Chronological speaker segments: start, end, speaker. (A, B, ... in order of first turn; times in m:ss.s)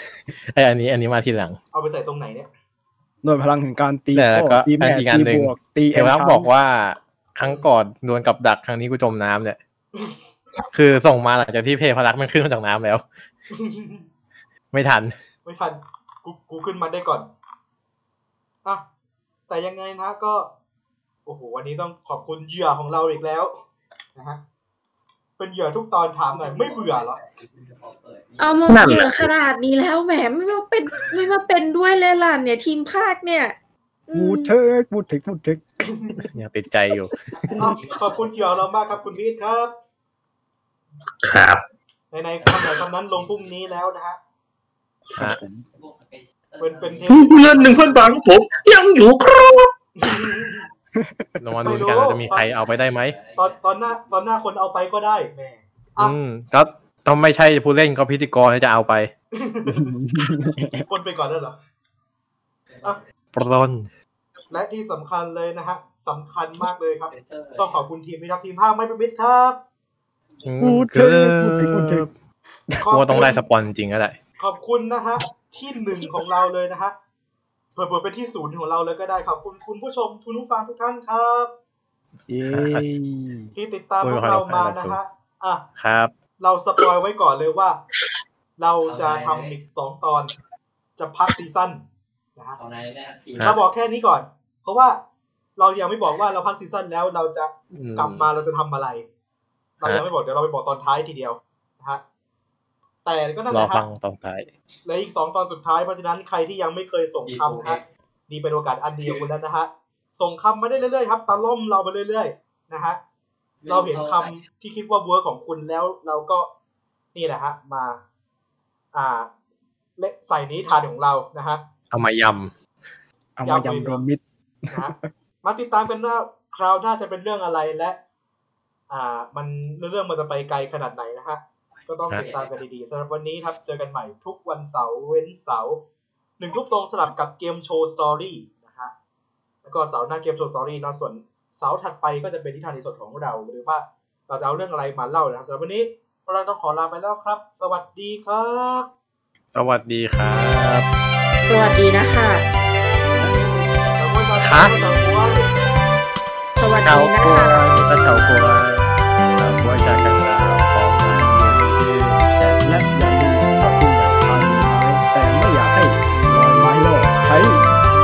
0:00.5-0:01.6 A
0:01.7-0:02.5 B
0:03.2-0:06.5 C
0:04.1-0:09.6 A
0:10.7-0:13.0 A
0:13.5-0:14.0 B
0:14.7-0:15.1 A
0:15.4-0:17.3 B
0:19.5-0:20.5 B
0:21.2-0:23.6 B
0:24.1-0:24.4 B
0:25.4-0:27.2 B
0:26.3-0:28.9 D
0:28.4-0:33.5 E
0:28.7-0:29.3 F
0:30.9-0:31.4 D
0:34.1-0:34.5 E
0:34.1-0:35.6 C
0:35.8-0:36.2 B
0:36.3-0:37.7 A
0:37.3-0:39.1 D
0:37.6-0:39.7 B
0:41.2-0:41.6 F
0:42.1-0:44.2 B
0:42.4-0:43.8 D
0:45.2-0:45.6 C
0:45.7-0:48.0 D
0:46.6-0:48.0 B
0:47.1-0:49.7 F
0:50.0-0:50.6 B
0:50.9-0:51.4 C
0:51.4-0:53.2 A
0:51.6-0:52.4 B
0:52.3-0:54.0 D
0:53.4-0:56.2 B
0:56.0-0:59.1 A
0:59.3-0:59.9 B
0:59.7-1:00.9 C
1:00.7-1:01.6 B
1:02.7-1:03.0 D
1:03.3-1:03.9 A
1:04.5-1:09.6 B
1:07.1-1:07.8 D
1:10.4-1:12.1 A
1:10.6-1:12.1 C
1:12.8-1:13.4 B
1:12.9-1:14.2 A
1:14.4-1:16.9 B
1:17.8-1:21.5 B
1:22.3-1:23.5 C
1:22.5-1:22.8 A
1:23.6-1:25.6 B
1:24.0-1:25.0 A
1:25.8-1:26.1 A
1:26.4-1:27.8 B
1:28.6-1:30.3 B
1:28.8-1:29.6 D
1:31.0-1:31.8 B
1:32.6-1:33.6 D
1:33.4-1:35.0 B
1:35.6-1:39.0 B
1:37.7-1:38.3 A
1:39.8-1:42.0 B
1:43.0-1:43.9 B
1:43.5-1:44.5 A
1:44.8-1:53.0 B
1:47.2-1:47.8 D
1:53.6-1:54.4 D
1:53.7-1:56.5 B
1:57.1-1:58.0 B
1:58.9-1:59.3 B
2:00.0-2:01.6 B
2:01.9-2:02.5 A
2:03.4-2:05.1 C
2:03.4-2:04.0 B
2:04.7-2:08.0 B
2:08.9-2:15.8 B
2:11.7-2:12.6 D
2:16.4-2:18.9 B
2:19.6-2:28.9 B
2:29.5-2:30.9 A
2:31.4-2:32.4 E
2:33.1-2:33.7 C
2:34.0-2:35.5 B
2:34.4-2:34.7 A
2:36.6-2:37.8 E
2:36.8-2:42.6 A
2:42.6-2:47.6 C